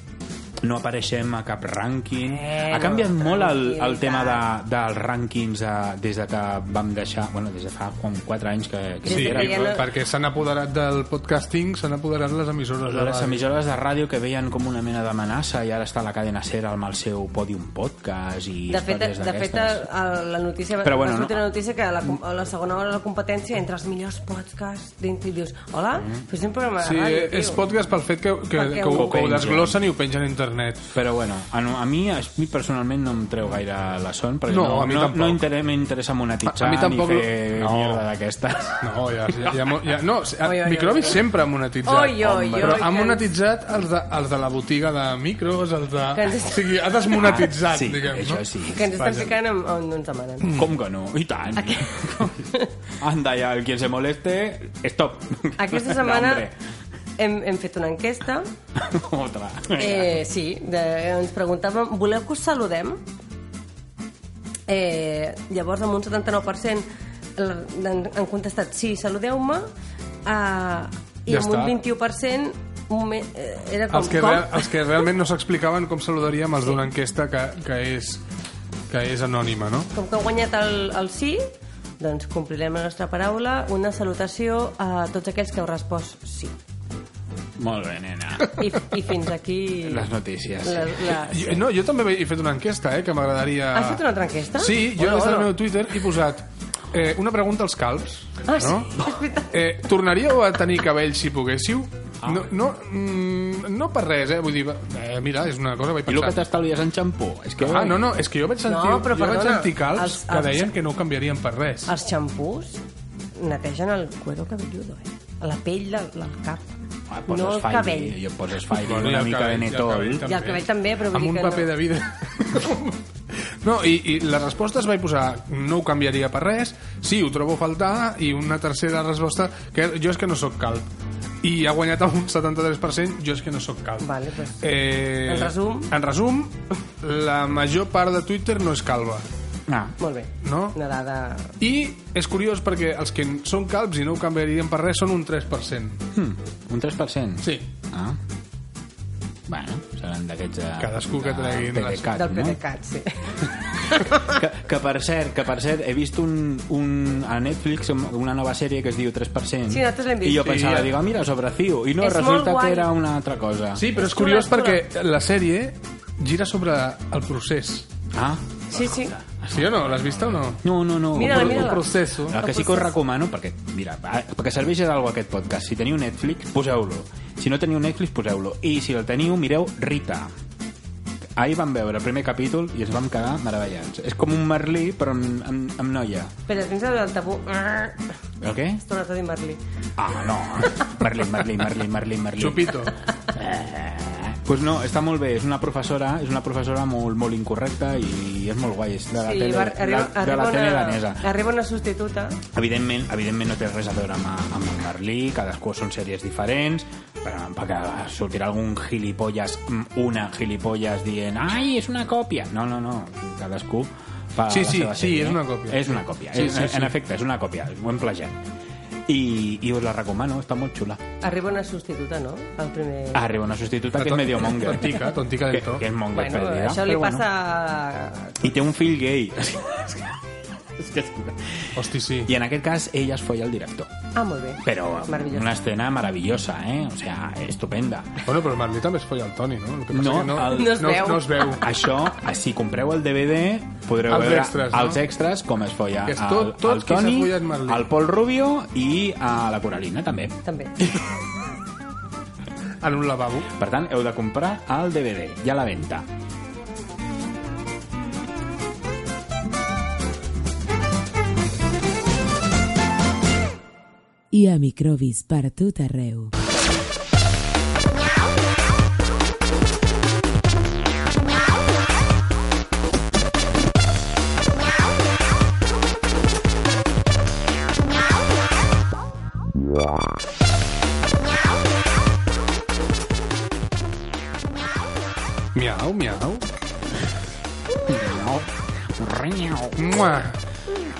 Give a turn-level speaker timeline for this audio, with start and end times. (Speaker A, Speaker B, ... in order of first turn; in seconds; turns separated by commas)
Speaker A: 0.6-9.8, Speaker B: 2.2-4.5, Speaker B: 9.1-9.8, Speaker C: 9.1-13.4, Speaker A: 12.9-19.9, Speaker B: 18.7-27.6, Speaker A: 20.8-21.4, Speaker A: 25.9-26.2, Speaker C: 26.8-30.9, Speaker B: 28.5-29.2, Speaker A: 28.9-29.8, Speaker A: 30.9-38.8, Speaker C: 34.5-35.4, Speaker C: 36.4-38.0, Speaker C: 38.8-49.3, Speaker B: 40.4-41.2, Speaker B: 41.8-43.2, Speaker A: 42.3-42.8, Speaker B: 46.1-46.6, Speaker A: 47.1-48.9, Speaker B: 48.7-50.5, Speaker A: 50.5-52.4, Speaker B: 51.6-52.7, Speaker A: 53.0-56.5, Speaker B: 55.6-56.5, Speaker B: 57.2-58.5, Speaker A: 58.8-60.2, Speaker B: 59.8-63.0, Speaker B: 64.7-69.7, Speaker B: 70.2-74.7, Speaker C: 71.3-71.8, Speaker C: 73.9-78.2, Speaker C: 78.9-79.9, Speaker B: 79.9-81.4, Speaker B: 82.0-86.5, Speaker A: 87.6-88.6, Speaker B: 88.5-91.5, Speaker A: 89.8-91.2, Speaker C: 91.3-94.0, Speaker B: 93.7-95.5, Speaker C: 94.6-98.9, Speaker B: 98.5-99.5, Speaker C: 99.5-106.4, Speaker A: 102.2-102.5, Speaker A: 106.0-108.1, Speaker C: 107.6-111.9, Speaker B: 108.7-110.7, Speaker B: 111.8-112.8, Speaker B: 113.3-116.6, Speaker A: 117.1-120.2, Speaker B: 117.3-118.1, Speaker C: 118.7-130.9, Speaker B: 120.2-121.7, Speaker C: 131.4-134.1, Speaker B: 134.0-134.7, Speaker C: 134.6-139.2, Speaker B: 135.2-135.9, Speaker A: 139.7-139.9, Speaker B: 140.0-141.6, Speaker C: 140.4-140.8, Speaker C: 141.6-146.0, Speaker A: 146.1-148.2, Speaker C: 147.4-147.7, Speaker A: 149.5-152.6, Speaker C: 150.8-152.1, Speaker B: 152.1-154.3, Speaker A: 154.2-163.9, Speaker B: 159.7-160.6, Speaker C: 160.4-160.9, Speaker B: 162.0-162.9, Speaker C: 163.8-167.9, Speaker B: 164.0-164.8, Speaker A: 168.1-180.3, Speaker B: 168.7-169.1, Speaker C: 169.5-170.6, Speaker B: 171.1-172.9, Speaker C: 171.1-172.4, Speaker A: 181.4-186.3, Speaker B: 186.5-188.0, Speaker A: 188.4-188.8, Speaker B: 188.8-189.6, Speaker A: 190.0-201.2, Speaker C: 192.4-192.9, Speaker B: 199.2-202.4, Speaker A: 202.5-218.5, Speaker C: 214.5-216.9, Speaker A: 219.1-221.0, Speaker B: 221.2-223.3, Speaker A: 223.1-227.2, Speaker C: 223.9-225.8, Speaker B: 226.1-228.4, Speaker A: 228.4-230.2, Speaker A: 230.8-233.9, Speaker C: 231.7-232.3, Speaker B: 234.2-235.5, Speaker A: 234.6-238.2, Speaker C: 238.2-241.6, Speaker A: 239.9-251.1, Speaker B: 240.5-241.6, Speaker C: 244.1-245.0, Speaker C: 246.1-247.9, Speaker B: 250.4-250.7, Speaker C: 252.8-253.5, Speaker A: 253.6-256.1, Speaker D: 264.3-266.3, Speaker C: 285.5-286.4, Speaker A: 287.8-290.0, Speaker C: 289.8-290.4